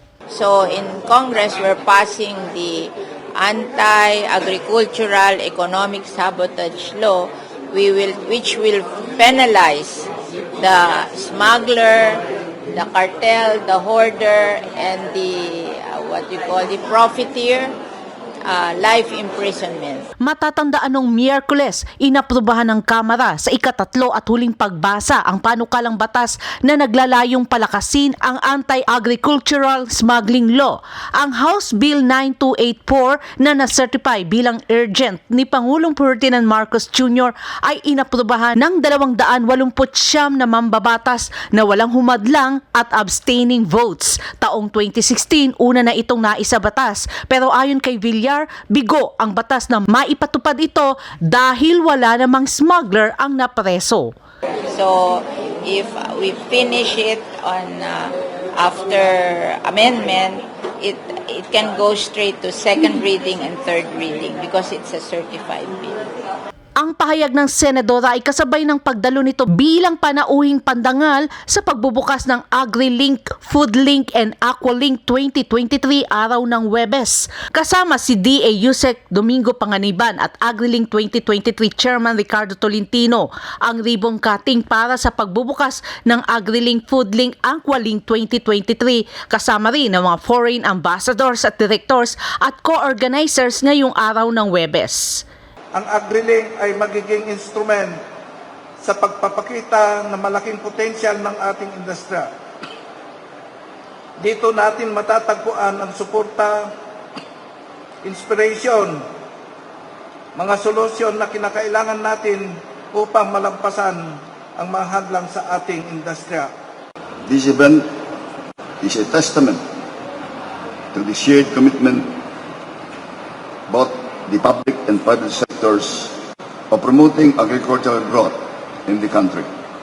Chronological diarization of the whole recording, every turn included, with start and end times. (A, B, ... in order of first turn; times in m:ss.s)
0:00.3-0:17.8 A
0:18.4-0:20.1 A
0:20.2-0:54.1 B
0:54.7-1:06.0 A
1:06.8-1:35.2 B
1:35.7-1:38.0 C
1:38.8-1:42.3 C
1:44.2-1:46.7 C
1:48.0-1:49.0 C
1:50.4-1:56.5 C
1:57.2-1:57.9 D
1:58.8-1:59.6 D
2:00.9-2:02.1 D
2:03.7-2:06.2 D
2:06.7-2:09.5 D